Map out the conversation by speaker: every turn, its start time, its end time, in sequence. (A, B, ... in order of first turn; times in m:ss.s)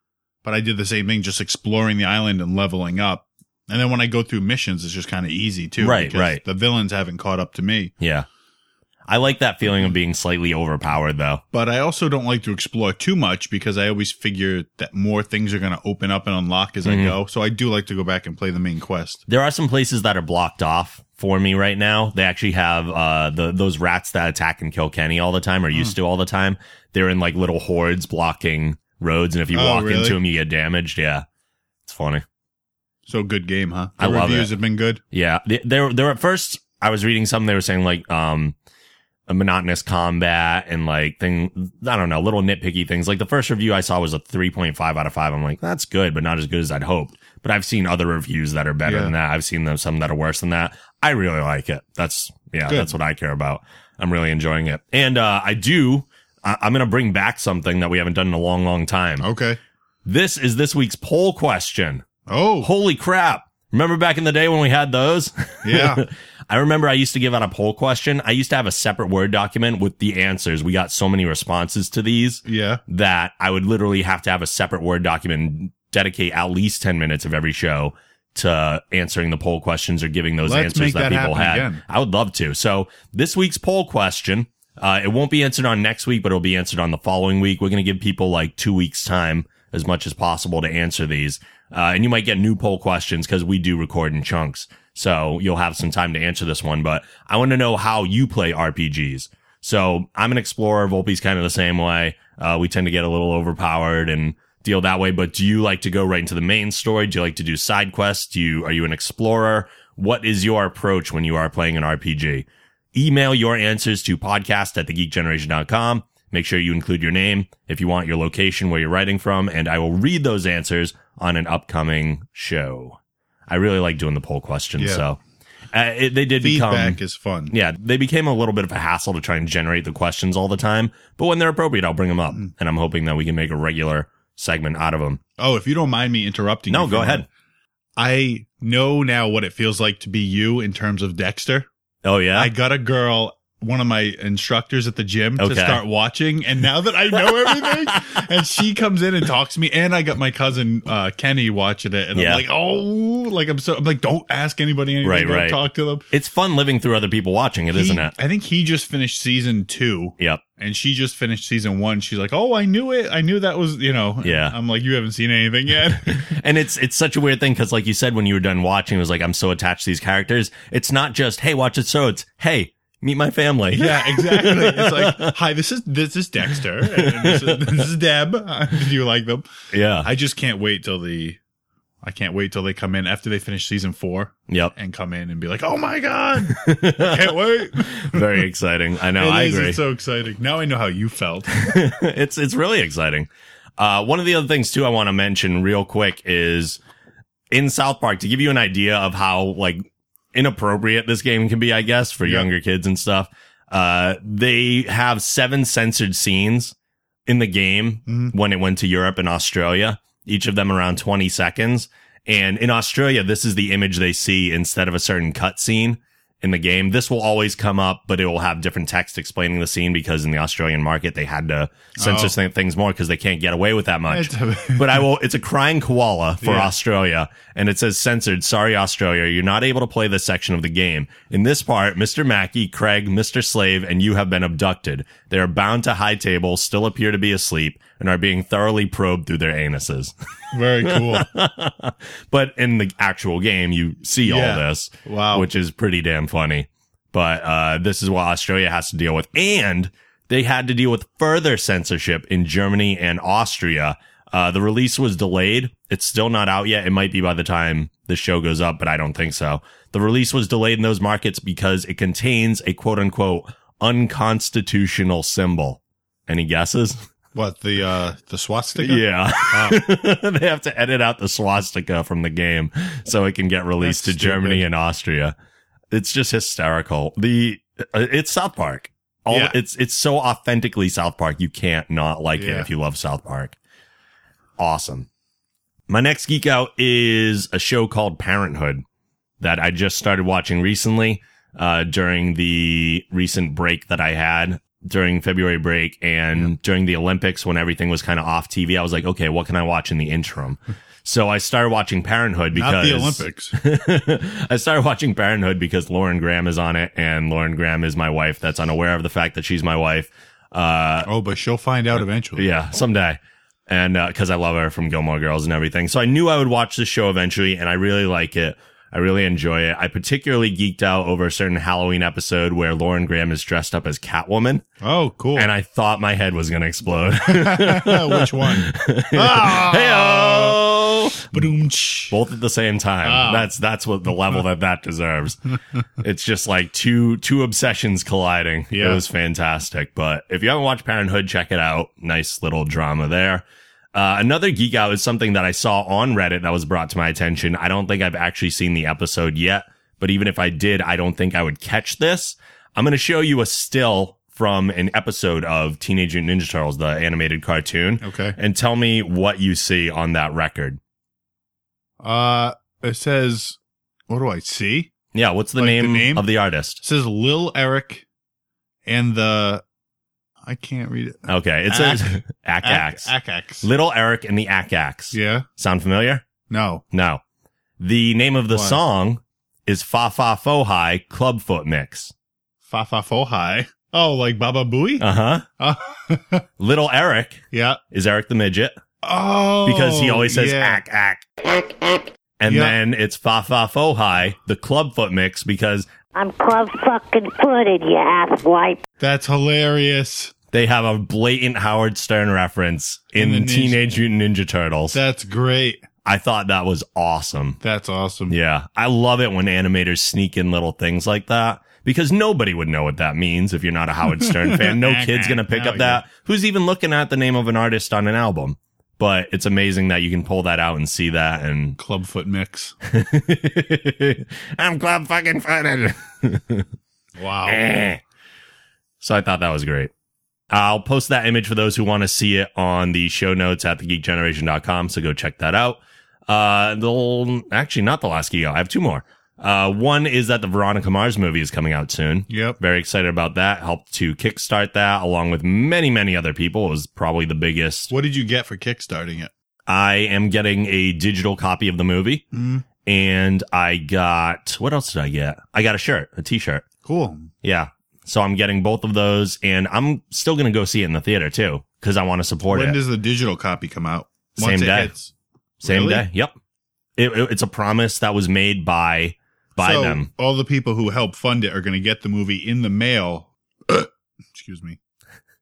0:00.4-0:07.9 A
0:05.8-0:06.4 B
0:08.0-0:08.3 B
0:09.1-0:11.4 B
0:11.5-0:19.2 A
0:16.8-0:17.2 B
0:19.3-0:31.2 B
0:29.5-0:30.2 A
0:31.8-0:32.2 B
0:33.0-0:35.0 A
0:34.0-0:34.5 B
0:35.1-0:38.6 B
0:39.3-0:59.3 B
0:48.8-0:49.1 A
0:52.7-0:52.9 A
0:59.2-0:59.6 A
1:00.0-1:02.0 B
1:02.3-1:02.7 A
1:02.6-2:05.2 B
1:05.6-1:06.0 A
1:12.4-1:12.8 A
1:20.4-1:21.8 A
2:04.8-2:05.0 A
2:05.7-2:15.2 B
2:06.4-2:07.5 A
2:15.4-2:17.2 A
2:16.7-2:17.3 B
2:18.0-2:21.7 A
2:22.0-2:22.5 B
2:22.3-2:36.0 A
2:25.4-2:25.8 B
2:27.2-2:28.2 B
2:32.1-2:32.4 B
2:35.0-2:38.1 B
2:37.7-2:46.4 A
2:44.2-2:44.6 B
2:46.0-2:55.3 B
2:53.7-2:59.4 A
2:56.8-2:57.8 B
2:59.7-3:00.1 B
3:00.0-3:01.4 A
3:02.0-3:08.4 A
3:06.5-3:09.8 B
3:09.1-3:11.7 A
3:11.6-3:16.8 B
3:17.5-3:26.7 B
3:27.3-4:00.1 B
3:28.1-3:28.3 A
3:42.0-3:42.3 A
3:44.1-3:45.1 A
3:46.4-3:46.7 A
4:00.5-4:01.3 A
4:00.8-4:27.0 B
4:04.2-4:05.5 A
4:27.3-4:29.8 A
4:28.8-4:35.3 B
4:33.8-4:34.6 A
4:35.9-4:43.6 B
4:39.3-4:39.6 A
4:42.4-4:42.7 A
4:44.6-4:45.1 B
4:45.9-4:48.8 B
4:49.4-5:11.1 B
5:02.5-5:03.5 A
5:11.0-5:12.5 A
5:12.4-5:24.6 B
5:24.8-5:25.5 A
5:25.3-5:31.4 B
5:27.2-5:30.6 A
5:31.3-5:32.2 A
5:32.1-6:00.8 B
5:33.0-5:33.5 A
5:38.7-5:39.0 A
5:58.0-5:58.4 A
6:02.0-6:04.9 A
6:05.1-6:06.8 B
6:05.6-6:06.3 A
6:06.8-6:08.0 A
6:08.8-6:09.6 A
6:10.4-6:13.7 A
6:11.3-6:16.2 B
6:15.1-6:15.4 A
6:16.5-6:16.8 A
6:16.9-6:17.2 B
6:17.8-6:22.1 B
6:18.5-6:18.8 A
6:22.6-6:25.0 A
6:25.0-6:25.4 B
6:25.6-6:26.4 A
6:26.6-6:28.7 B
6:27.5-6:27.8 A
6:29.0-6:30.8 A
6:29.6-6:31.2 B
6:32.4-6:35.9 B
6:32.4-6:32.8 A
6:36.1-6:38.8 C
6:39.0-6:40.3 A
6:40.5-6:45.0 B
6:43.2-6:43.8 A
6:44.9-6:45.8 A
6:46.0-6:47.6 B
6:47.6-6:48.4 A
6:48.3-7:01.8 B
6:54.1-6:56.0 A
7:01.8-7:02.7 A
7:02.8-7:06.7 B
7:07.2-7:07.6 A
7:07.4-7:08.0 B
7:09.0-7:09.9 B
7:10.5-7:27.9 B
7:22.3-7:22.6 A
7:27.9-7:29.3 A
7:29.7-7:32.2 B
7:32.3-7:32.6 A
7:32.8-7:36.6 B
7:36.8-7:37.3 A
7:37.4-7:42.8 B
7:42.5-7:46.0 A
7:44.4-7:44.9 B
7:45.6-7:46.3 B
7:47.0-7:50.1 B
7:49.6-7:54.8 A